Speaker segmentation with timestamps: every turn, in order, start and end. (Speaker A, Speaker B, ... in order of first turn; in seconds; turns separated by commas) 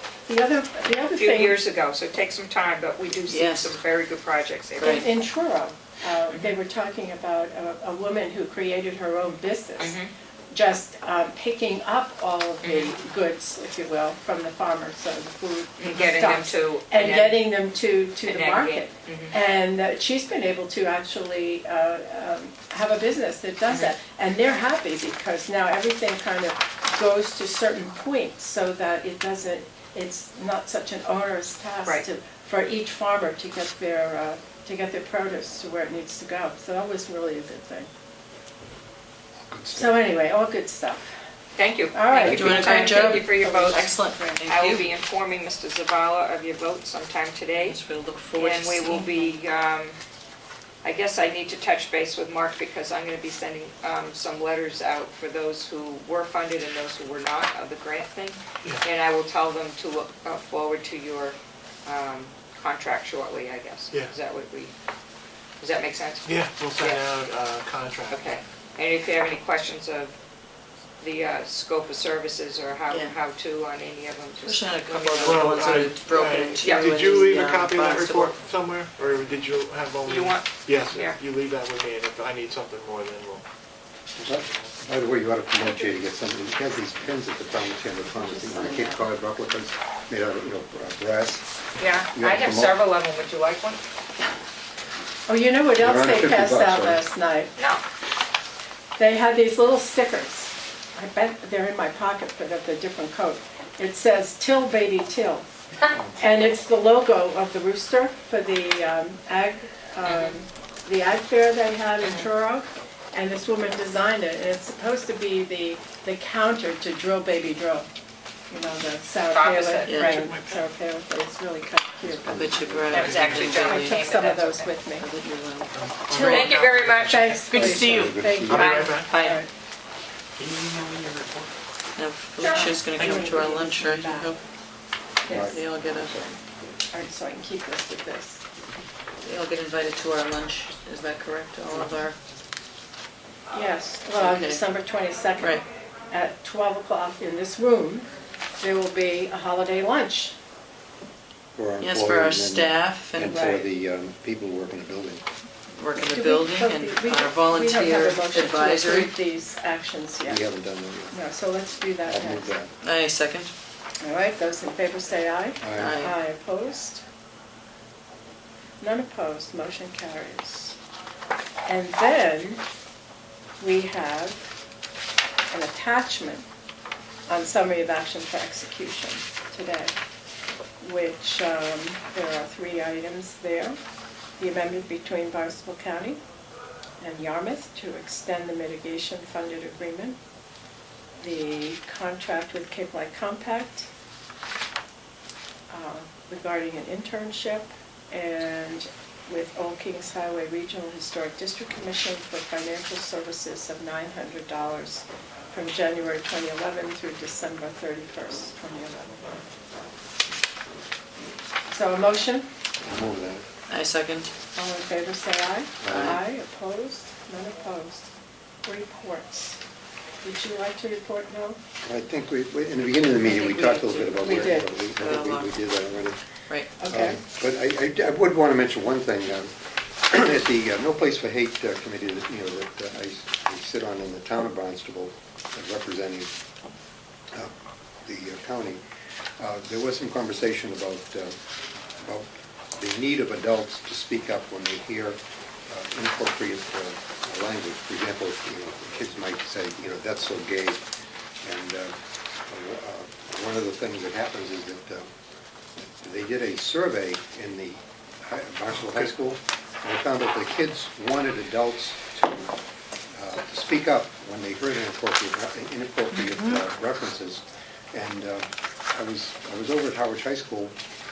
Speaker A: 0.3-1.6, Speaker B: 1.1-5.1, Speaker C: 3.3-3.8, Speaker A: 4.8-10.0, Speaker C: 4.8-5.1, Speaker B: 9.8-10.1, Speaker A: 10.5-37.9, Speaker B: 12.6-12.9, Speaker B: 15.8-17.5, Speaker B: 18.2-19.4, Speaker D: 39.5-40.0, Speaker A: 39.7-41.1, Speaker B: 41.6-47.8, Speaker A: 41.9-44.4, Speaker C: 42.3-44.9, Speaker C: 47.6-49.3, Speaker B: 48.4-50.0, Speaker B: 50.8-64.7, Speaker B: 65.6-67.0, Speaker E: 66.2-68.4, Speaker B: 68.1-70.2, Speaker B: 71.0-75.9, Speaker C: 72.9-73.2, Speaker C: 74.4-78.3, Speaker E: 75.2-83.4, Speaker B: 76.6-77.1, Speaker B: 80.1-81.2, Speaker D: 84.2-91.5, Speaker C: 88.1-89.1, Speaker B: 91.8-93.8, Speaker D: 92.1-92.8, Speaker A: 95.3-97.5, Speaker D: 95.8-97.0, Speaker A: 99.0-105.5, Speaker A: 106.2-117.9, Speaker B: 110.0-110.4, Speaker B: 112.0-112.3, Speaker A: 118.5-122.5, Speaker B: 119.3-120.0, Speaker C: 119.8-120.2, Speaker E: 120.0-120.6, Speaker D: 122.0-123.4, Speaker C: 122.3-124.1, Speaker B: 122.9-124.7, Speaker E: 122.9-123.6, Speaker A: 123.5-125.1, Speaker C: 125.0-126.5, Speaker E: 125.7-127.8, Speaker A: 126.1-126.5, Speaker B: 126.2-127.3, Speaker A: 127.0-129.5, Speaker C: 127.5-128.3, Speaker D: 127.5-128.9, Speaker B: 128.5-129.0, Speaker E: 128.6-129.2, Speaker C: 129.1-129.4, Speaker C: 132.0-134.4, Speaker B: 132.4-132.8, Speaker A: 132.4-134.3, Speaker E: 132.9-133.3, Speaker A: 135.2-135.6, Speaker D: 135.3-136.4, Speaker C: 135.4-136.2, Speaker A: 136.9-138.4, Speaker C: 139.2-142.2, Speaker A: 143.5-148.1, Speaker C: 144.2-144.6, Speaker C: 145.4-145.6, Speaker A: 148.6-150.3, Speaker D: 151.6-155.2, Speaker C: 151.8-153.7, Speaker C: 155.7-159.1, Speaker A: 156.0-160.4, Speaker D: 160.3-161.2, Speaker A: 161.1-162.5, Speaker D: 162.1-162.7, Speaker C: 162.8-163.5, Speaker A: 164.0-167.0, Speaker D: 165.6-166.0, Speaker C: 165.8-166.2, Speaker A: 168.8-170.8, Speaker A: 171.7-172.6, Speaker A: 173.6-174.4, Speaker A: 175.5-176.4, Speaker A: 177.3-179.9, Speaker A: 180.8-183.8, Speaker A: 184.4-186.2, Speaker A: 187.0-190.2, Speaker A: 191.2-193.9, Speaker A: 195.7-209.4, Speaker A: 211.7-212.5, Speaker D: 212.8-213.4, Speaker C: 213.7-214.3, Speaker A: 214.6-218.1, Speaker D: 215.8-216.2, Speaker C: 215.9-216.2, Speaker A: 218.7-219.6, Speaker A: 220.2-221.6, Speaker D: 221.8-226.2, Speaker C: 223.2-225.5, Speaker A: 224.0-224.7, Speaker A: 226.8-227.2, Speaker D: 226.8-229.5, Speaker D: 230.1-236.3, Speaker D: 238.1-238.8, Speaker D: 239.4-241.4, Speaker D: 242.0-250.8, Speaker D: 251.4-251.9, Speaker D: 252.5-255.1, Speaker D: 255.8-262.5, Speaker D: 263.1-270.8, Speaker C: 266.3-266.6